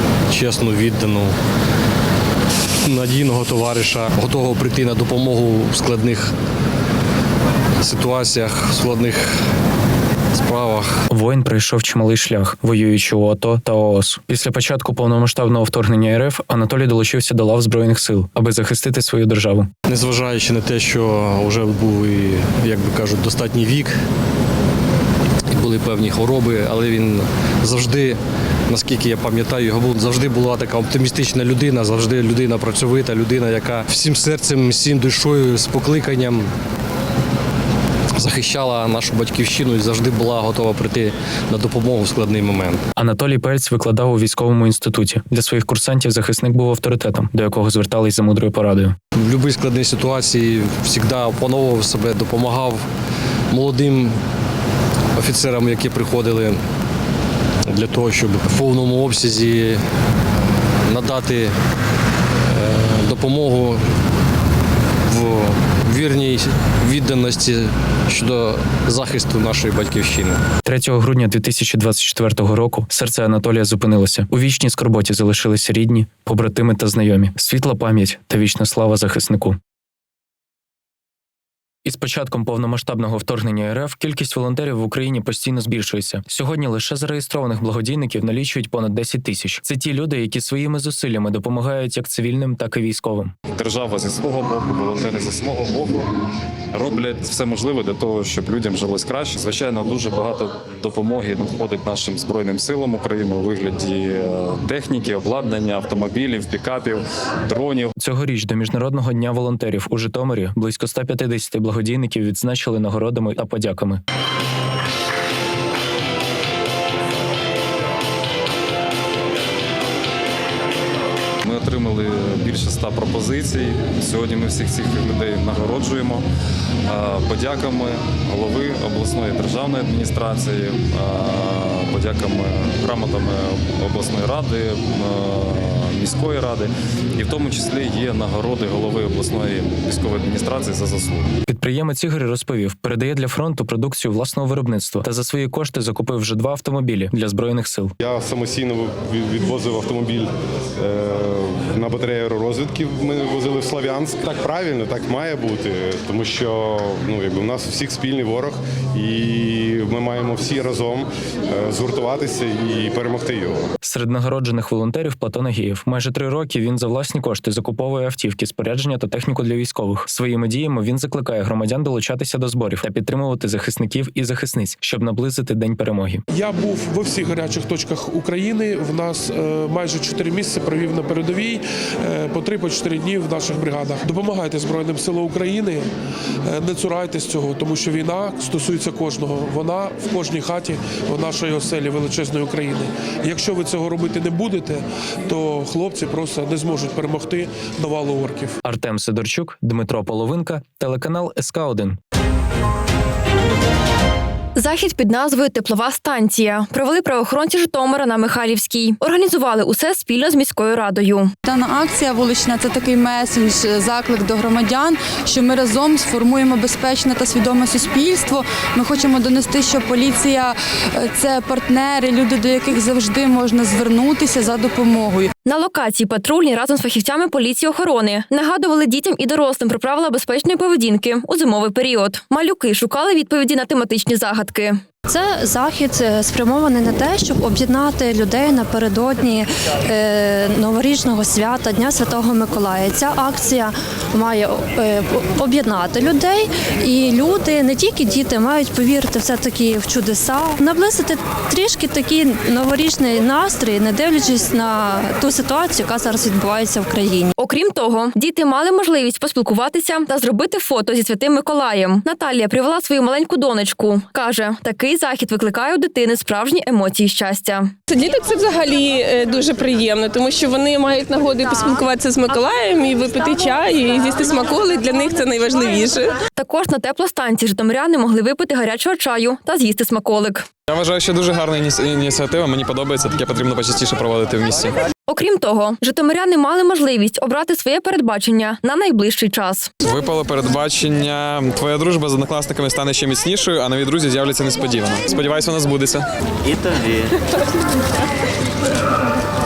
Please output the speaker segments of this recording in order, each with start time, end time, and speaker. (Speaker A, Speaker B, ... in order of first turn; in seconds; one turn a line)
Speaker A: 0.3-1.3
Speaker A: 2.9-6.2
Speaker A: 7.8-8.8
Speaker A: 10.4-10.8
Speaker B: 11.1-19.7
Speaker A: 19.9-23.9
Speaker A: 25.5-28.2
Speaker A: 28.7-36.5
Speaker A: 38.2-42.8
Speaker B: 43.0-48.9
Speaker A: 49.1-52.8
Speaker A: 53.5-54.1
Speaker A: 55.1-56.5
Speaker A: 57.7-59.8
Speaker A: 60.9-61.5
Speaker A: 62.6-63.8
Speaker A: 65.1-70.4
Speaker B: 70.6-79.6
Speaker B: 81.8-93.3
Speaker C: 93.5-96.1
Speaker C: 96.7-107.9
Speaker B: 108.0-114.0
Speaker C: 121.4-126.2
Speaker C: 126.9-141.3
Speaker B: 141.5-147.9
Speaker D: 148.0-150.3
Speaker D: 150.8-163.6
Speaker B: 163.8-176.2
Speaker E: 176.3-185.9
Speaker E: 186.4-198.6
Speaker B: 198.6-202.0
Speaker F: 204.6-211.3
Speaker G: 211.4-225.3
Speaker F: 225.4-234.8
Speaker H: 235.1-257.3
Speaker F: 257.4-267.7
Speaker I: 267.9-276.1
Speaker F: 276.4-280.5
Speaker J: 280.7-284.8
Speaker F: 285.1-289.7
Speaker J: 289.8-296.1